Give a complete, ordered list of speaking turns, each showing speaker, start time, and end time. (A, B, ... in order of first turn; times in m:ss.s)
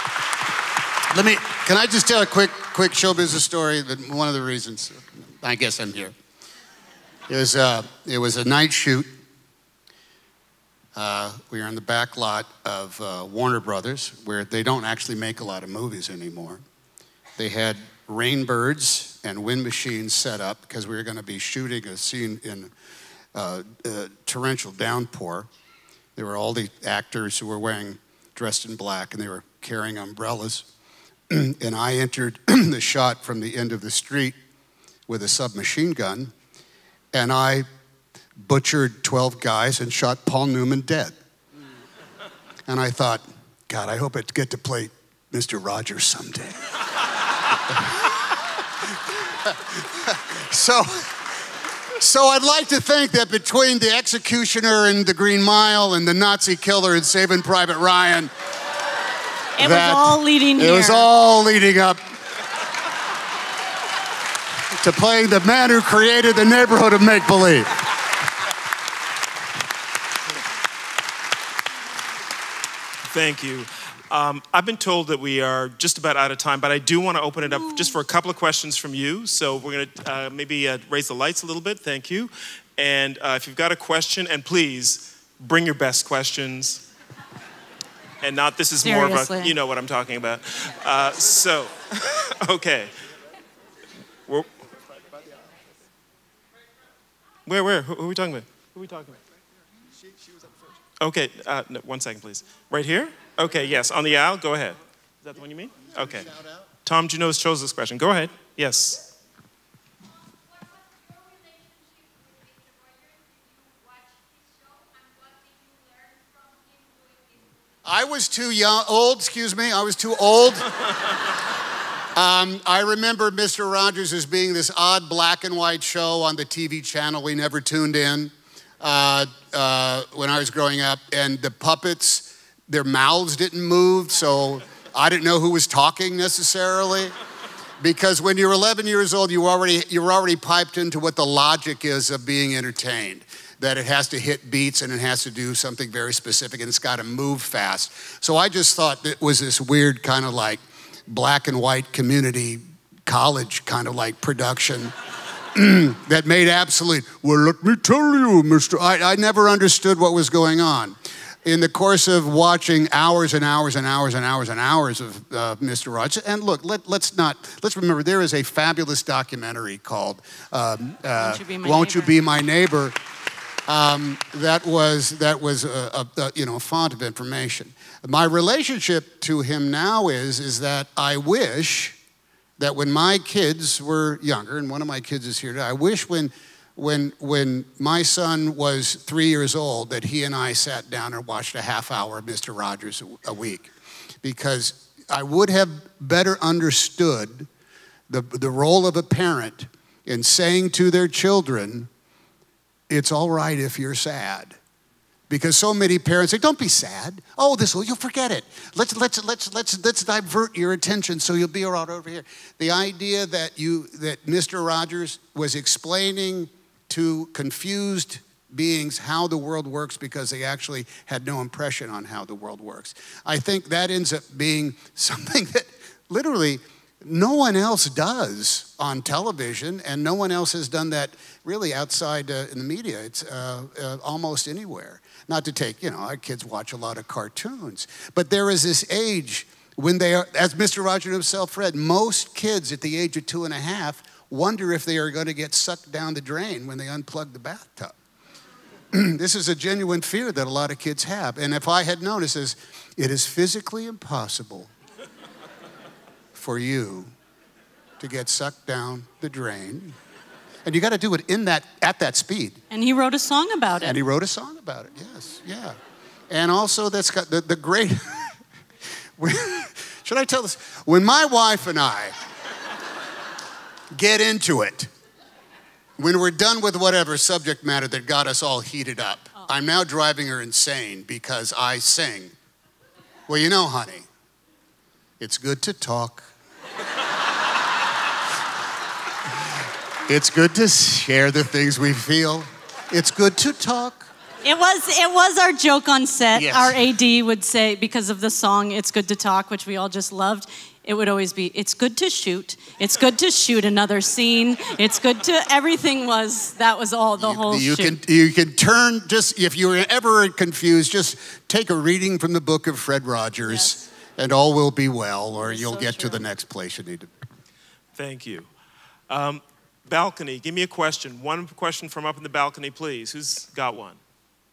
0:01.1-0:06.1 A
0:07.3-0:09.1 A
0:11.0-0:16.6 A
0:17.4-0:22.7 A
0:23.3-0:25.5 A
0:26.2-0:30.7 A
0:31.3-0:34.4 A
0:35.1-0:36.3 A
0:37.1-0:37.7 A
0:38.4-0:41.2 A
0:42.7-0:46.7 A
0:49.3-0:58.3 A
0:59.6-1:01.1 B
0:59.6-1:02.0 A
1:04.8-1:07.7 A
1:13.0-1:26.8 C
1:28.2-1:32.9 C
1:28.8-1:29.5 B
1:37.4-1:39.2 C
1:41.0-1:49.0 C
1:57.8-2:00.7 A
2:02.1-2:17.1 A
2:17.8-2:34.9 A
2:35.5-2:52.9 A
2:51.2-2:52.2 B
2:53.7-3:02.0 A
3:02.6-3:13.7 A
3:14.2-3:17.5 A
3:18.1-3:21.9 A
3:22.9-3:24.6 A
3:25.3-4:08.0 A
4:08.9-4:14.7 A
4:16.3-4:17.1 A
4:18.0-4:20.0 A
4:20.6-4:22.6 A
4:22.7-4:24.0 B
4:23.8-4:25.8 A
4:26.3-4:28.4 A
4:29.2-4:32.1 A
4:33.9-4:34.9 A
4:36.0-4:42.3 A
4:43.3-4:44.1 A
4:45.2-4:46.3 A
4:50.1-4:54.1 A
4:54.4-5:08.0 B
4:56.3-4:56.8 A
5:07.2-5:17.1 A
5:13.4-5:13.8 B
5:15.4-5:16.2 B
5:18.0-5:18.5 C
5:19.1-5:24.0 C